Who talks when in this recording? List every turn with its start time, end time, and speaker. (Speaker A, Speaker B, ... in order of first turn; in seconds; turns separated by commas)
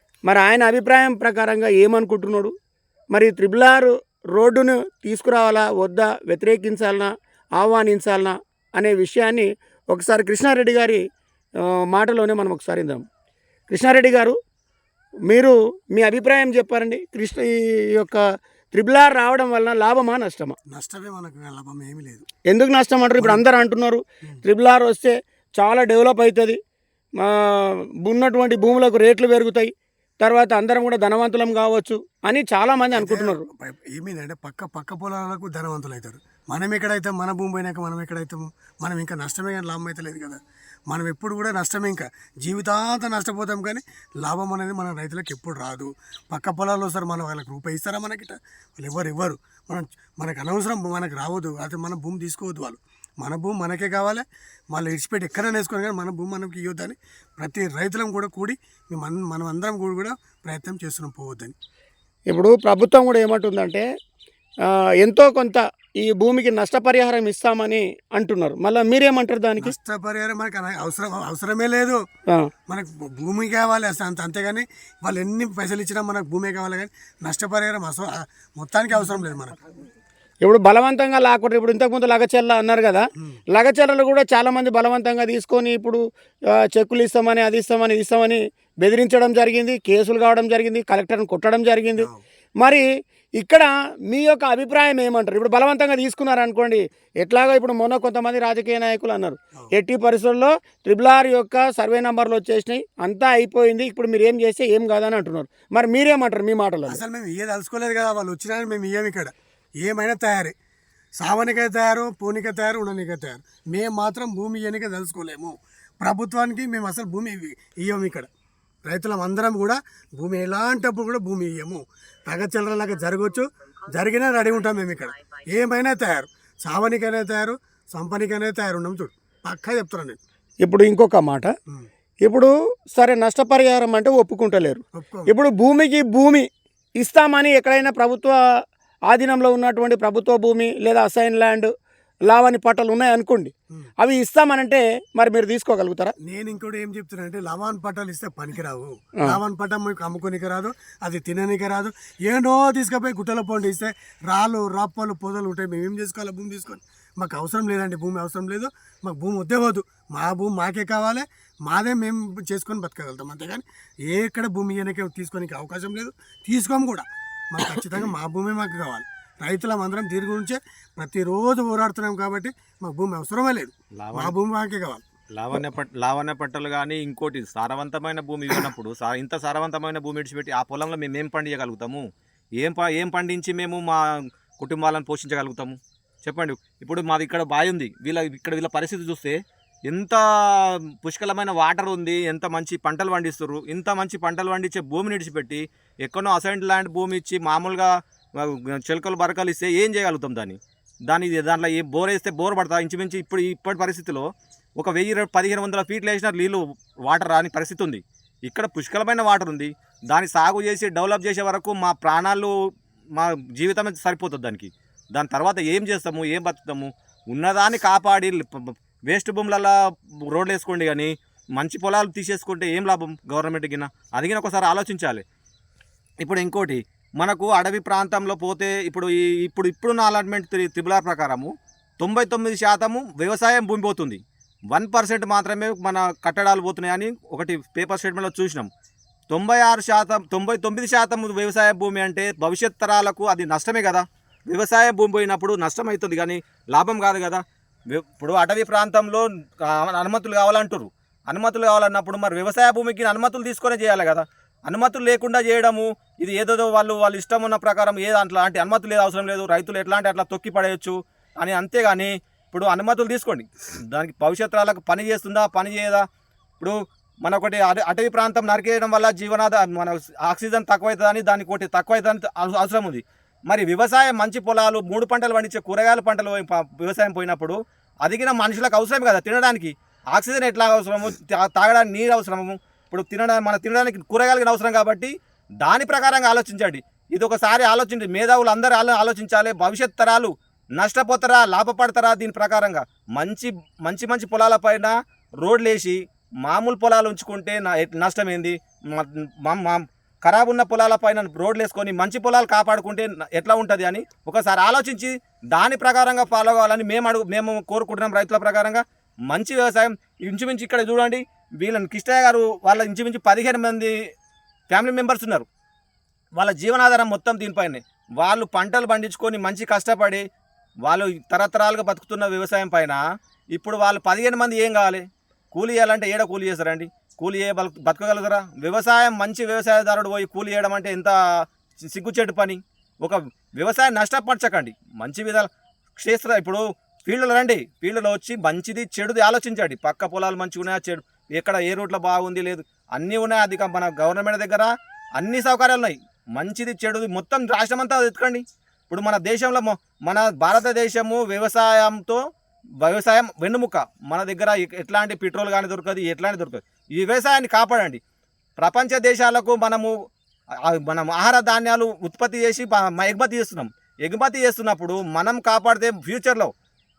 Speaker A: 0.2-2.5, Speaker A: 3.1-11.0, Speaker A: 11.6-13.0, Speaker A: 13.7-14.4, Speaker A: 15.3-18.2, Speaker A: 18.7-20.6, Speaker B: 20.7-22.2, Speaker A: 22.5-26.6, Speaker B: 23.2-23.4, Speaker A: 27.2-33.4, Speaker B: 32.9-61.5, Speaker A: 62.3-63.8, Speaker A: 65.0-69.7, Speaker B: 69.6-72.0, Speaker B: 72.7-79.6, Speaker A: 80.4-86.0, Speaker A: 86.5-92.1, Speaker A: 93.4-107.0, Speaker B: 106.9-110.5, Speaker B: 111.2-118.3, Speaker B: 118.8-130.2, Speaker A: 130.6-131.5, Speaker A: 132.2-136.4, Speaker B: 134.9-135.3, Speaker A: 137.0-138.3, Speaker A: 139.1-141.7, Speaker A: 142.3-146.1, Speaker B: 146.2-175.0, Speaker C: 174.0-174.3, Speaker C: 175.3-182.1, Speaker C: 182.6-212.5, Speaker C: 213.2-225.2, Speaker C: 226.2-238.7, Speaker C: 239.3-266.0, Speaker C: 266.6-313.9, Speaker C: 314.7-315.5, Speaker C: 316.3-320.2, Speaker C: 320.8-323.0, Speaker C: 323.5-331.1, Speaker C: 331.8-352.2, Speaker C: 352.8-358.0, Speaker C: 358.6-359.9, Speaker C: 360.6-366.5